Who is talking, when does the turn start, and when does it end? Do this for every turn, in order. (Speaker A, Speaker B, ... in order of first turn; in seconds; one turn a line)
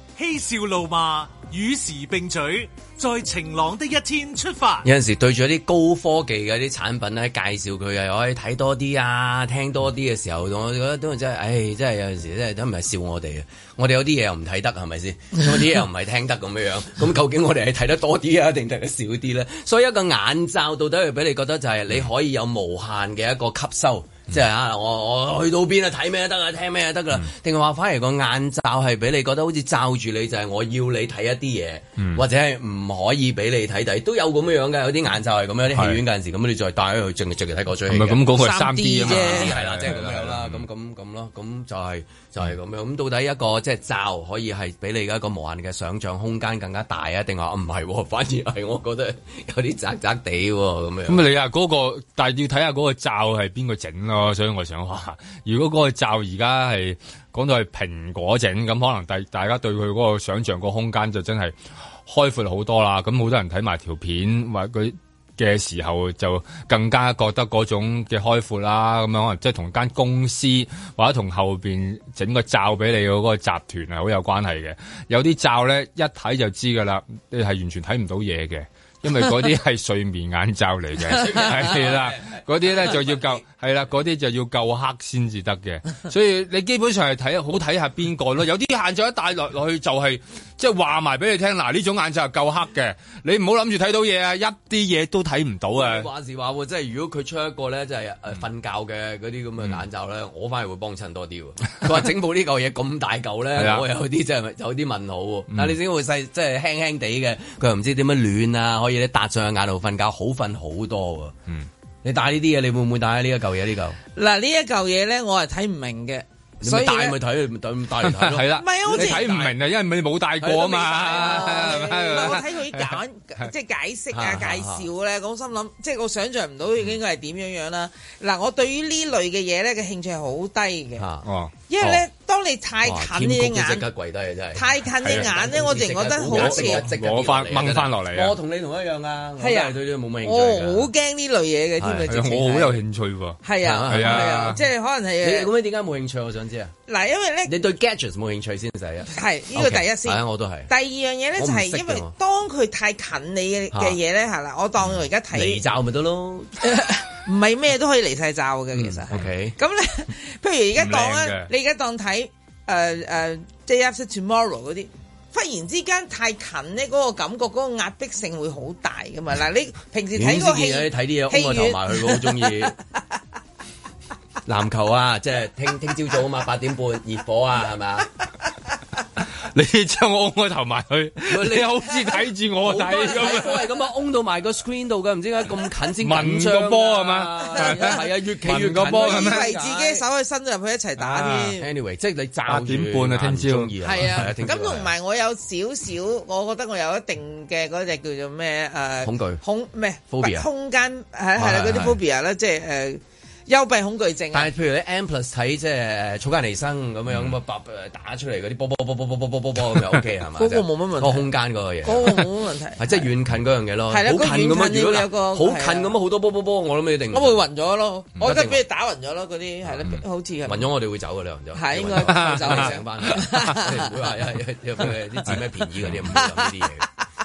Speaker A: 0.2-4.9
Speaker B: 4.8-38.3
Speaker C: 35.7-36.0
Speaker C: 37.9-40.6
Speaker D: 38.3-39.5
Speaker B: 39.0-51.3
Speaker C: 51.1-96.1
Speaker B: 81.1-83.4
Speaker B: 95.8-111.3
Speaker C: 103.6-103.8
Speaker B: 112.0-114.0
Speaker D: 114.2-117.2
Speaker B: 116.6-119.5
Speaker C: 118.0-123.5
Speaker D: 118.6-119.3
Speaker B: 120.4-122.4
Speaker D: 121.0-131.1
Speaker B: 124.1-124.9
Speaker B: 131.0-131.3
Speaker C: 131.2-131.5
Speaker D: 131.7-133.9
Speaker B: 132.8-140.9
Speaker D: 134.6-136.9
Speaker C: 136.3-138.3
Speaker D: 139.4-142.8
Speaker B: 141.8-142.1
Speaker C: 142.1-144.6
Speaker D: 143.4-145.5
Speaker B: 143.6-144.6
Speaker B: 145.2-146.7
Speaker D: 146.9-147.5
Speaker B: 147.5-150.7
Speaker D: 149.1-155.6
Speaker B: 151.4-152.1
Speaker B: 153.7-154.0
Speaker B: 155.3-156.6
Speaker D: 156.6-172.4
Speaker B: 158.7-159.6
Speaker C: 160.8-161.5
Speaker B: 170.2-172.8
Speaker B: 174.5-178.1
Speaker C: 179.5-183.7
Speaker B: 181.3-190.0
Speaker C: 186.0-189.5
Speaker D: 187.5-188.0
Speaker D: 188.8-191.7
Speaker B: 191.0-194.9
Speaker C: 192.5-194.0
Speaker D: 193.8-204.5
Speaker B: 199.0-199.4
Speaker B: 200.1-200.5
Speaker B: 201.4-202.0
Speaker B: 204.3-217.4
Speaker D: 210.4-211.3
Speaker D: 211.8-213.1
Speaker D: 213.9-215.9
Speaker D: 217.1-220.7
Speaker B: 218.2-218.6
Speaker B: 220.5-226.9
Speaker D: 221.5-223.9
Speaker C: 222.0-223.5